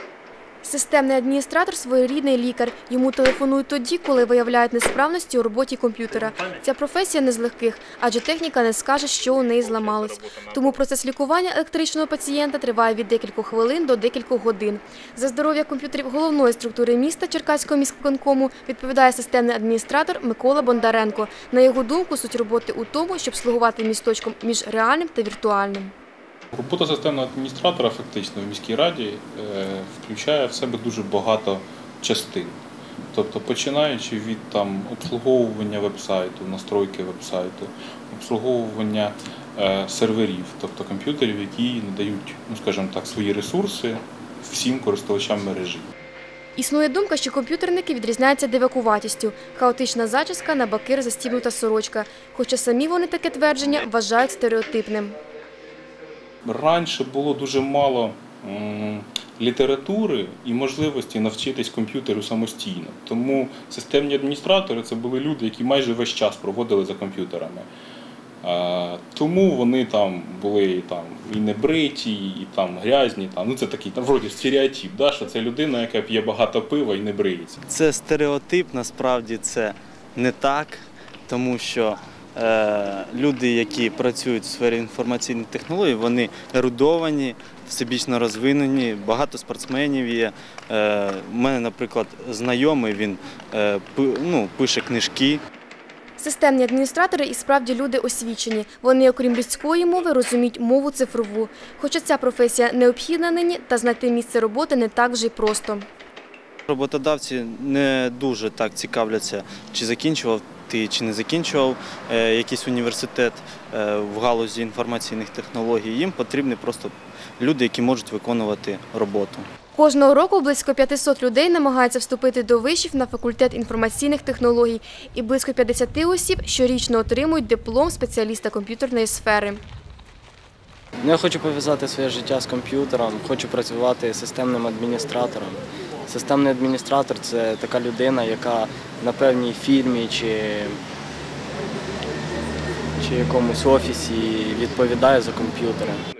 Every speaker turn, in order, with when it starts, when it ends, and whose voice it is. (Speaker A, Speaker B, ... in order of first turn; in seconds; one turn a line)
Speaker A: 0.6-25.9
Speaker B: 26.5-32.6
Speaker B: 33.1-45.9
Speaker A: 46.5-55.2
Speaker B: 56.4-67.7
Speaker B: 68.4-77.6
Speaker C: 77.7-95.4
Speaker A: 96.2-105.8
Speaker C: 106.7-119.5
Speaker A: 119.7-129.6
Speaker D: 131.0-140.8
Speaker D: 143.0-146.0